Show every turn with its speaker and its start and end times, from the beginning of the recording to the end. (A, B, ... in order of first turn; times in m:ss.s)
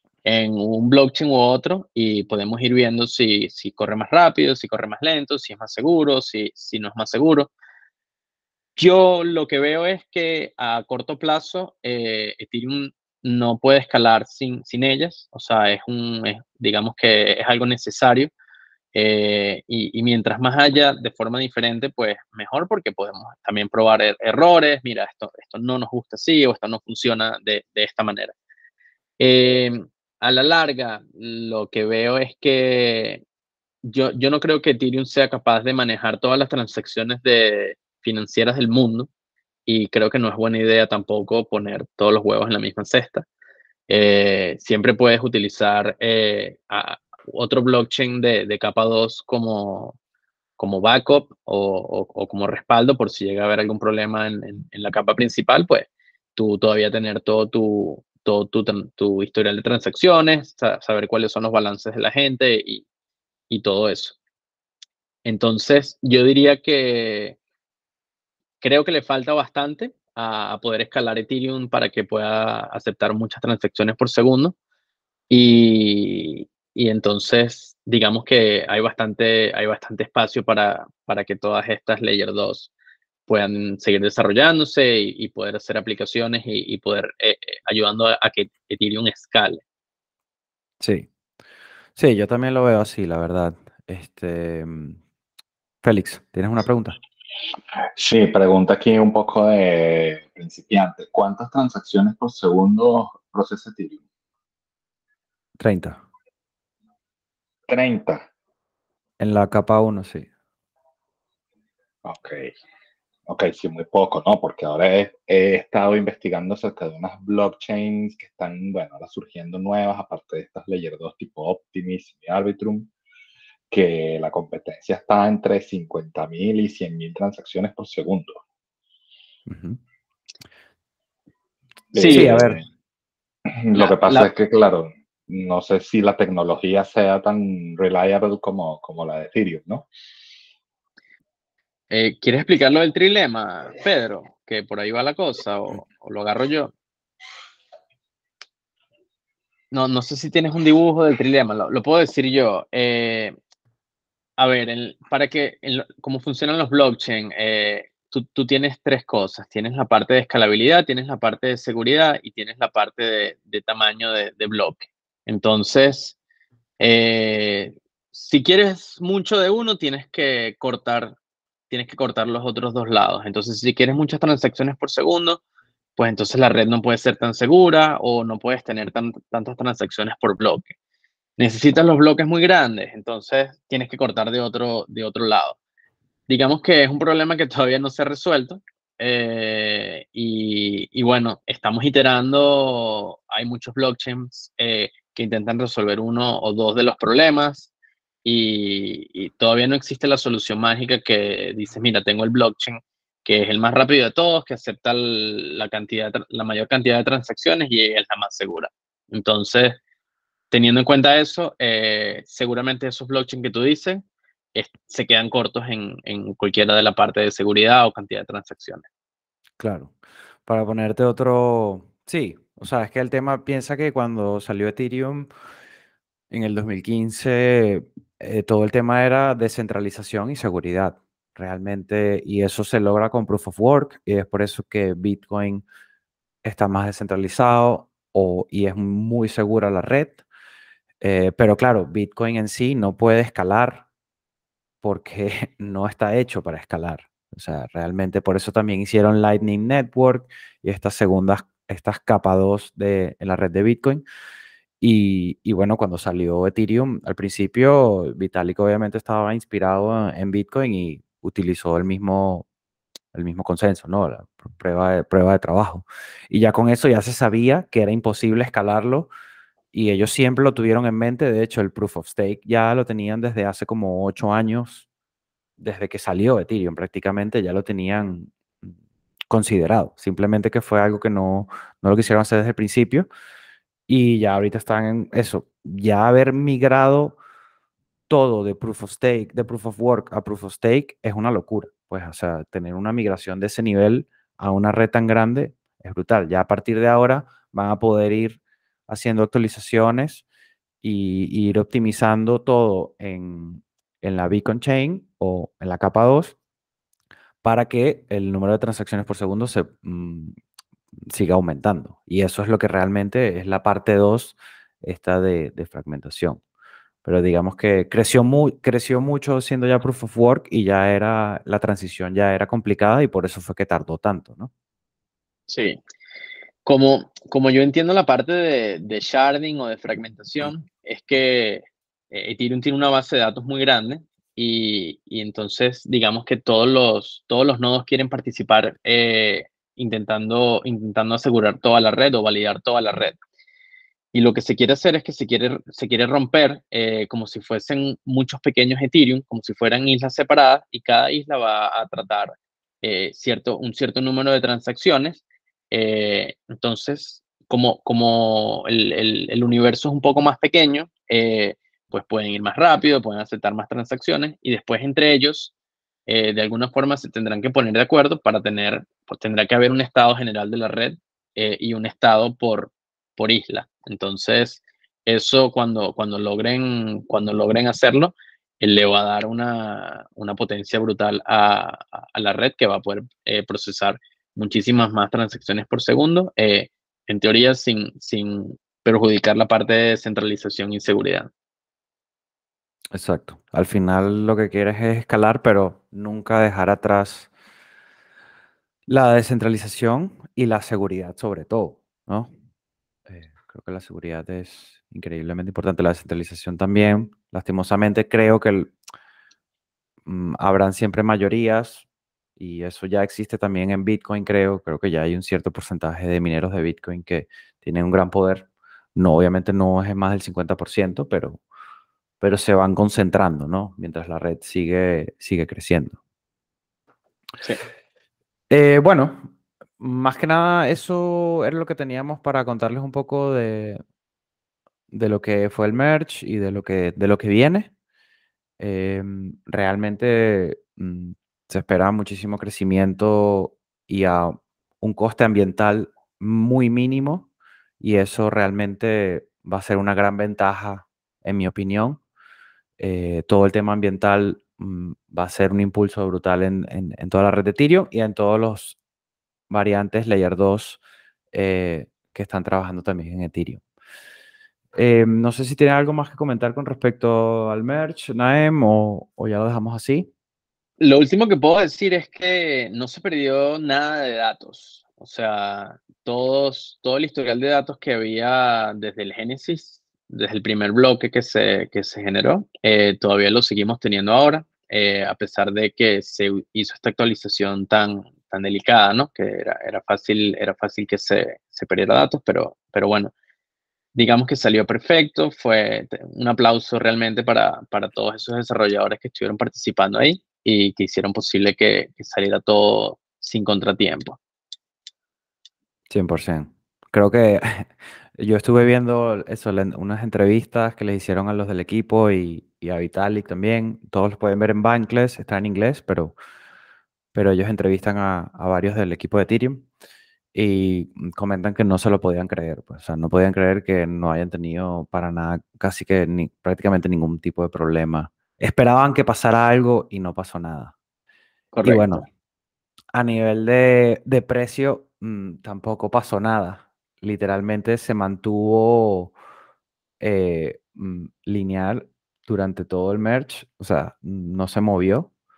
0:00.2-0:07.5 A
0:08.8-0:18.3 A
0:18.9-0:28.3 A
0:29.2-0:33.2 A
0:33.8-0:39.1 A
0:39.7-0:43.2 A
0:43.9-0:50.0 A
0:50.6-1:02.8 A
1:03.5-1:04.2 A
1:05.2-1:07.4 A
1:08.6-1:14.5 A
1:15.3-1:22.7 A
1:23.3-1:29.6 A
1:30.8-1:31.1 B
1:32.0-1:35.0 B
1:35.8-1:37.0 B
1:37.9-1:44.0 C
1:45.6-1:46.0 B
1:47.7-1:48.3 C
1:49.2-1:50.3 B
1:52.0-1:52.5 C
1:53.3-2:02.9 C
2:03.7-2:08.4 C
2:09.5-2:09.8 B
2:11.9-2:12.6 C
2:12.0-2:12.4 A
2:12.0-2:12.6 B
2:13.5-2:19.9 C
2:13.7-2:14.2 A
2:21.9-2:26.7 A
2:29.7-2:33.3 A
2:34.4-2:46.2 A
2:46.8-2:51.1 A
2:51.7-2:55.4 A
2:56.0-3:00.7 A
3:01.4-3:05.6 A
3:06.3-3:17.7 A
3:18.2-3:29.8 A
3:30.5-3:34.0 A
3:34.5-3:38.8 A
3:39.6-3:39.9 B
3:40.5-3:45.3 B
3:46.3-3:55.6 B
3:56.4-4:00.2 B
4:01.0-4:03.8 B
4:04.8-4:14.0 B
4:14.8-4:22.4 B
4:23.1-4:29.1 B
4:29.7-4:34.8 B
4:35.6-4:38.7 B
4:39.3-4:43.1 B
4:43.9-4:47.2 B
4:48.1-5:00.2 B
5:00.8-5:06.3 B
5:07.4-5:10.4 B
5:11.1-5:16.4 B
5:17.0-5:24.5 B
5:25.5-5:25.8 A
5:26.6-5:43.2 A
5:44.1-6:05.5 A
6:06.1-6:31.3 A
6:32.9-6:37.3 B
6:38.9-6:42.3 B
6:43.1-6:48.7 B
6:50.0-6:51.8 B
6:52.4-7:01.4 B
7:02.2-7:06.0 B
7:08.5-7:13.8 B
7:14.9-7:17.7 B
7:18.6-7:27.3 B
7:27.8-7:32.0 B
7:32.8-7:38.8 B
7:39.5-7:40.8 B
7:41.3-7:43.6 B
7:44.7-7:50.1 B
7:50.8-8:13.1 A
8:13.9-8:24.2 A
8:25.9-8:36.1 B
8:37.1-8:39.7 B
8:40.3-8:50.7 B
8:51.5-8:52.0 A
8:51.6-8:52.0 B
8:52.9-8:59.1 B
9:00.0-9:05.1 B